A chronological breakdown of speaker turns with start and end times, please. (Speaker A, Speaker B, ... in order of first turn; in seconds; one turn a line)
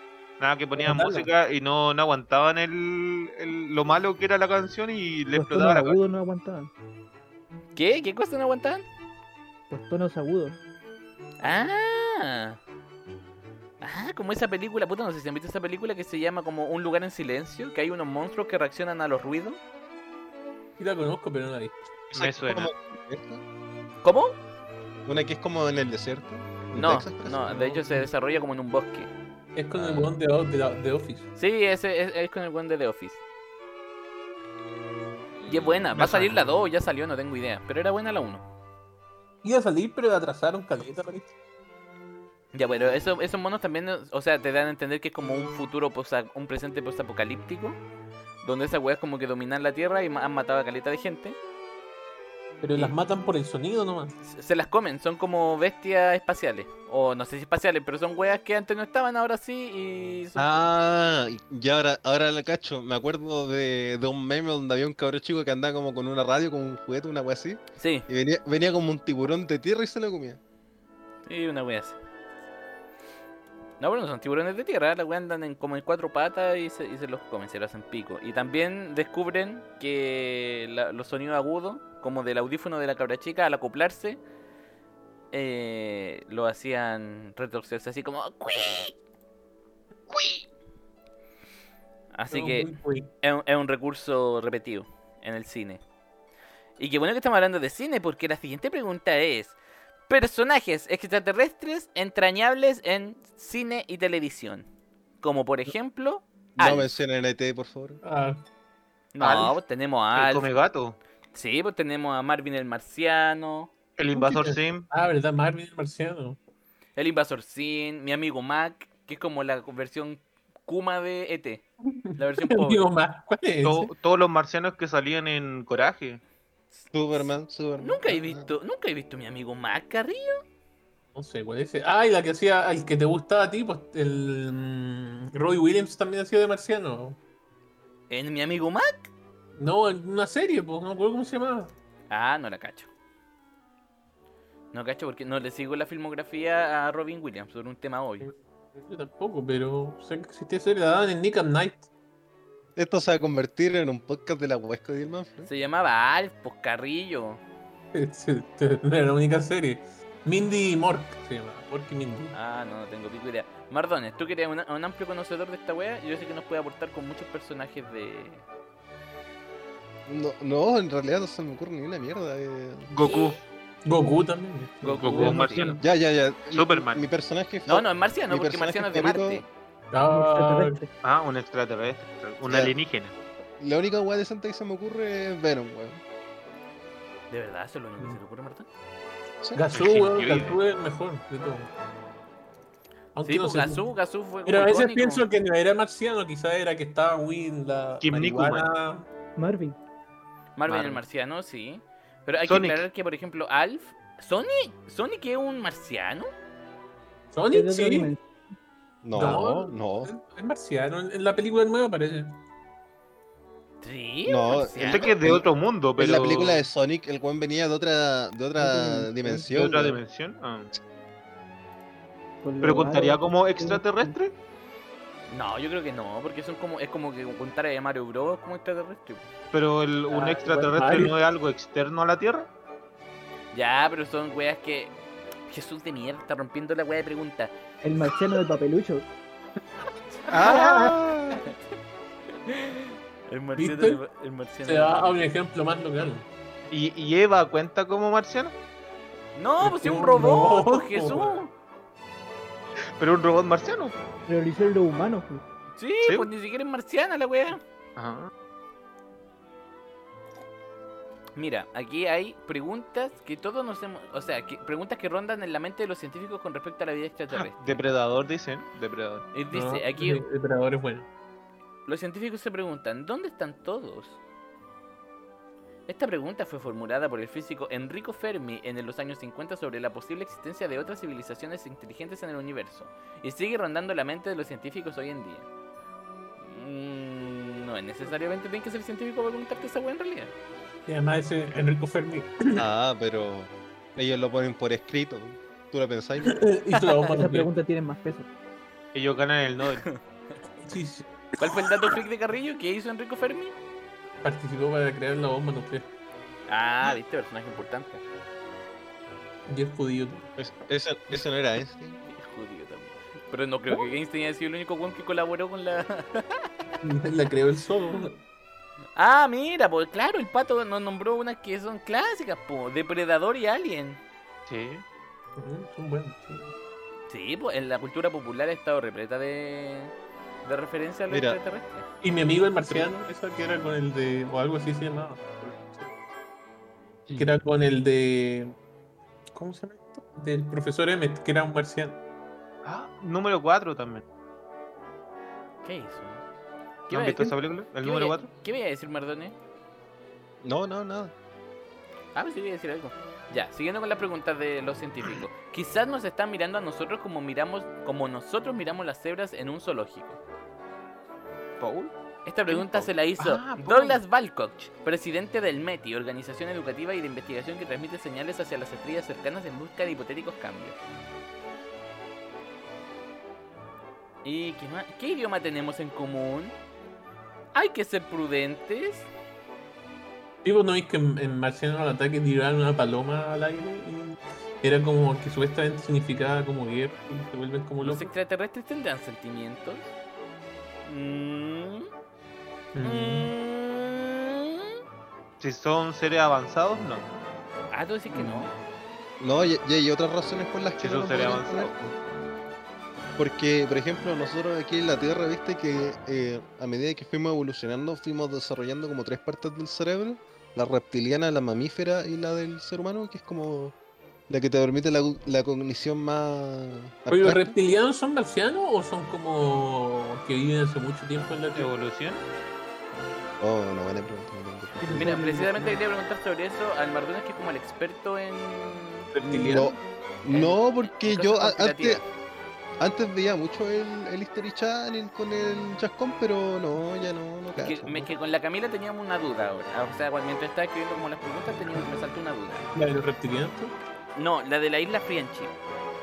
Speaker A: 0.4-6.0
Speaker B: 0.8-1.2
Speaker B: 5.3-6.7
Speaker C: 7.8-8.8
Speaker B: 9.7-10.6
Speaker C: 11.4-12.6
Speaker C: 13.8-19.6
Speaker D: 20.8-21.8
Speaker A: 22.1-22.7
Speaker E: 22.1-23.4
Speaker C: 24.0-24.4
Speaker E: 25.1-27.6
Speaker C: 26.7-29.1
Speaker D: 27.6-28.1
Speaker D: 29.5-31.3
Speaker C: 31.4-33.2
Speaker C: 35.5-38.4
Speaker D: 35.9-36.4
Speaker D: 39.4-41.3
Speaker C: 42.5-47.8
Speaker C: 48.4-51.4
Speaker D: 52.6-54.1
Speaker C: 54.2-60.6
Speaker E: 60.4-70.4
Speaker C: 67.8-68.1
Speaker C: 71.2-72.0
Speaker C: 73.8-84.2
Speaker C: 85.3-89.0
Speaker C: 90.1-90.4
Speaker C: 92.1-95.8
Speaker D: 92.3-93.1
Speaker C: 96.8-99.6
Speaker C: 100.1-104.7
Speaker C: 105.2-106.9
Speaker E: 106.6-108.0
Speaker D: 108.0-108.4
Speaker C: 109.1-110.5
Speaker A: 109.2-109.6
Speaker A: 110.1-111.0
Speaker C: 111.3-113.7
Speaker A: 114.0-114.9
Speaker D: 114.1-116.4
Speaker C: 117.0-122.8
Speaker D: 122.0-123.9
Speaker A: 123.6-126.2
Speaker C: 126.8-127.2
Speaker E: 126.9-128.5
Speaker C: 127.8-130.4
Speaker D: 131.1-137.2
Speaker C: 138.1-139.1
Speaker D: 139.6-141.7
Speaker C: 142.1-142.9
Speaker C: 144.7-148.3
Speaker D: 148.2-151.9
Speaker E: 152.8-155.5
Speaker C: 155.4-157.4
Speaker D: 157.9-162.3
Speaker C: 162.3-168.4
Speaker E: 170.1-172.9
Speaker A: 172.9-173.4
Speaker C: 173.0-173.4
Speaker D: 173.8-175.7
Speaker C: 174.8-175.7
Speaker A: 175.0-175.8
Speaker E: 175.8-179.4
Speaker A: 176.5-177.0
Speaker C: 177.7-179.4
Speaker D: 179.9-180.8
Speaker B: 180.1-180.9
Speaker A: 181.0-183.1
Speaker E: 182.4-182.7
Speaker E: 183.6-186.0
Speaker C: 187.3-188.7
Speaker D: 189.5-191.7
Speaker A: 189.7-190.6
Speaker D: 193.1-193.9
Speaker C: 193.2-195.2
Speaker D: 194.4-199.1
Speaker A: 198.0-198.7
Speaker B: 199.4-199.8
Speaker C: 200.6-206.3
Speaker A: 200.7-201.0
Speaker A: 202.4-202.8
Speaker D: 207.3-208.1
Speaker B: 207.5-208.2
Speaker E: 209.0-210.1
Speaker D: 209.1-212.4
Speaker C: 213.8-215.1
Speaker E: 214.2-220.0
Speaker A: 214.9-216.6
Speaker B: 218.6-219.5
Speaker A: 219.5-220.7
Speaker B: 222.4-224.1
Speaker A: 222.6-224.3
Speaker C: 225.3-229.3
Speaker A: 229.5-232.5
Speaker C: 230.1-230.8
Speaker D: 230.7-231.2
Speaker C: 233.5-234.9
Speaker C: 235.5-237.5
Speaker B: 237.8-239.1
Speaker C: 240.2-241.5
Speaker E: 240.3-241.4
Speaker A: 240.4-240.9
Speaker C: 242.4-245.2
Speaker D: 243.6-244.0
Speaker D: 244.6-246.2
Speaker A: 246.7-248.5
Speaker C: 249.3-251.5
Speaker D: 249.6-251.4
Speaker A: 253.0-253.9
Speaker B: 254.3-255.4
Speaker C: 255.8-257.6
Speaker A: 257.9-258.3
Speaker C: 261.4-267.8
Speaker A: 267.3-269.3
Speaker C: 269.3-270.2
Speaker D: 269.5-271.1
Speaker C: 271.9-274.2
Speaker C: 275.9-285.5
Speaker C: 286.4-290.3
Speaker D: 290.9-292.7
Speaker E: 292.5-296.4
Speaker D: 296.2-297.5
Speaker B: 297.0-298.3
Speaker A: 298.9-299.8
Speaker D: 300.6-301.9
Speaker C: 301.4-303.6
Speaker D: 304.2-305.9
Speaker C: 306.5-308.0
Speaker D: 309.5-310.3
Speaker E: 310.4-312.0
Speaker C: 312.1-316.5
Speaker D: 316.8-318.2
Speaker C: 318.9-324.0
Speaker A: 324.5-324.8
Speaker D: 325.4-326.5
Speaker C: 327.1-329.9
Speaker C: 330.4-331.9
Speaker E: 331.1-331.4
Speaker D: 332.0-336.0
Speaker D: 337.1-338.5
Speaker D: 339.3-342.0
Speaker A: 342.6-344.0
Speaker C: 345.6-346.2
Speaker C: 346.9-349.3
Speaker A: 346.9-348.3
Speaker E: 350.4-351.1
Speaker C: 352.1-360.2
Speaker A: 361.6-361.9
Speaker C: 362.2-370.8
Speaker A: 362.5-364.0
Speaker C: 374.2-376.6
Speaker C: 377.5-379.1
Speaker D: 380.4-388.1
Speaker C: 387.8-389.9
Speaker C: 390.8-391.9
Speaker D: 392.7-393.3
Speaker C: 392.8-394.8
Speaker A: 395.4-397.1
Speaker C: 397.7-398.5
Speaker E: 398.1-398.4
Speaker E: 399.2-401.9
Speaker A: 400.8-401.7
Speaker E: 403.2-413.7
Speaker E: 414.3-417.5
Speaker D: 417.1-421.7
Speaker A: 421.5-422.2
Speaker E: 423.4-425.1
Speaker B: 424.8-425.8
Speaker C: 424.9-429.7
Speaker D: 429.1-429.7
Speaker E: 429.4-432.0
Speaker C: 430.3-432.0
Speaker E: 432.8-438.1
Speaker C: 437.6-442.7
Speaker D: 442.7-443.7
Speaker C: 444.1-445.5